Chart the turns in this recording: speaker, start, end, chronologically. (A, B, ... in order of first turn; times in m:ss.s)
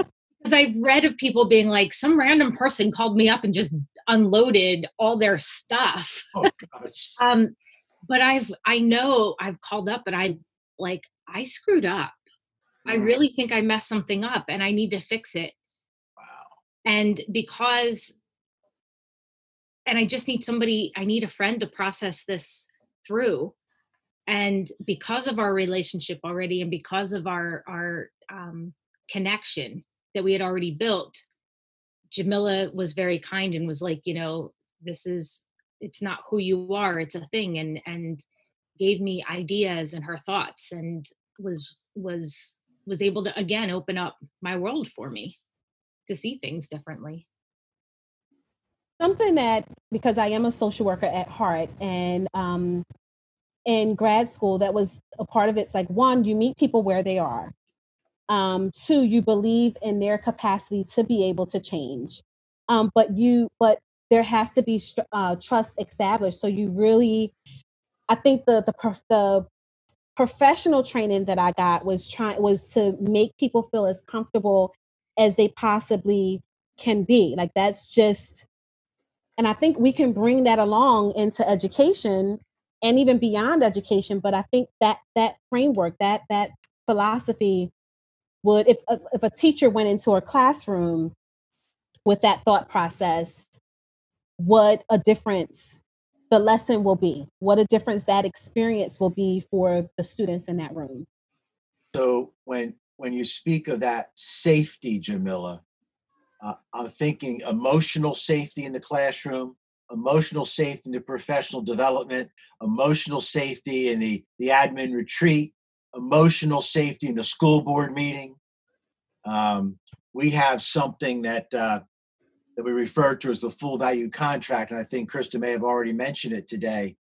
0:00.4-0:06.4 A
0:06.4-0:07.1 B
0:07.2-0:07.5 A
0:08.1-0:12.2 A
0:12.8-0:13.1 B
0:12.9-0:15.5 A
0:16.2-0:16.5 B
0:16.8-0:18.2 A
0:19.9-0:23.5 A
0:24.3-0:31.2 A
0:32.1-0:38.2 A
0:38.8-0:45.4 A
0:46.1-0:47.2 A
0:49.0-0:52.8 C
0:53.6-0:57.5 C
0:58.3-1:07.3 C
1:08.1-1:09.5 C
1:10.2-1:18.4 C
1:19.4-1:27.7 C
1:28.4-1:31.1 C
1:32.1-1:33.5 C
1:34.4-1:35.8 C
1:36.3-1:41.1 C
1:41.9-1:45.6 B
1:46.4-1:58.4 B
1:59.2-2:01.8 B
2:02.6-2:06.9 B